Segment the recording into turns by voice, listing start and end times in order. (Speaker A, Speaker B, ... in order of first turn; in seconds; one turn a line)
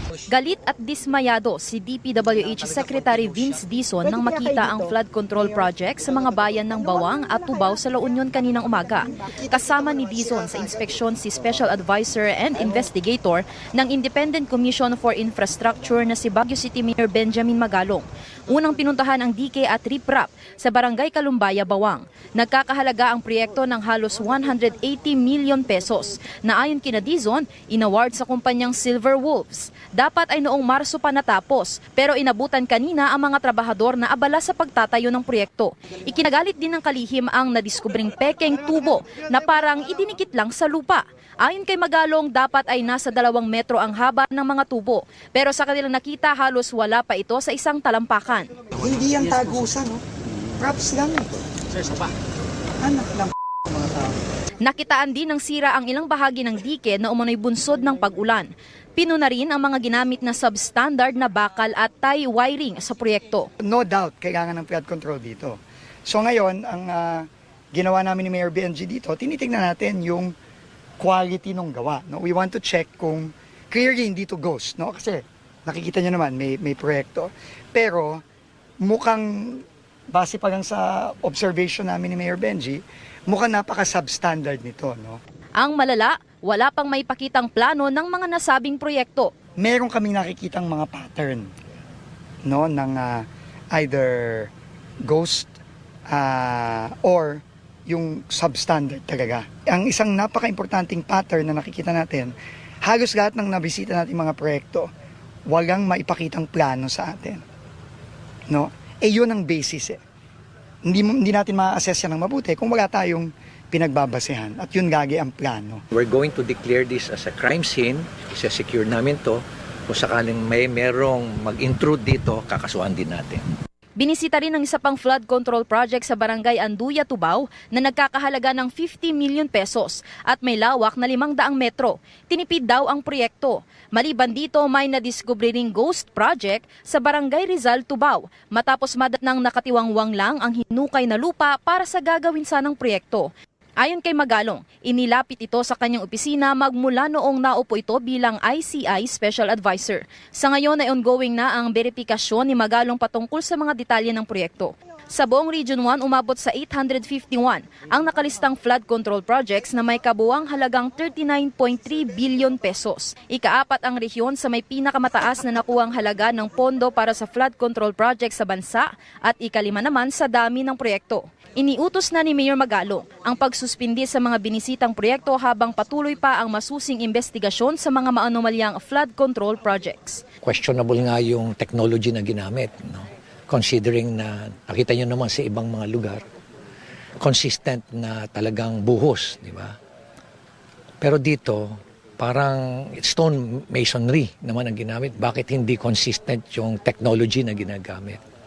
Speaker A: 0.3-48.5
Speaker B: 9.1-11.0
Speaker B: 48.7-52.1
Speaker B: 52.8-54.2
Speaker A: 54.6-63.5
Speaker B: 63.6-65.5
Speaker B: 66.1-70.3
Speaker B: 71.0-78.2
Speaker B: 78.8-85.2
Speaker A: 85.6-89.3
Speaker B: 89.6-91.5
Speaker B: 92.4-94.5
Speaker B: 95.1-95.5
Speaker B: 96.1-104.9
Speaker B: 105.5-107.4
Speaker B: 108.5-110.0
Speaker B: 110.8-115.8
Speaker C: 115.9-123.4
Speaker A: 124.0-143.3
Speaker A: 143.8-180.2
Speaker C: 180.4-186.2
Speaker C: 187.2-189.7
Speaker C: 191.0-198.2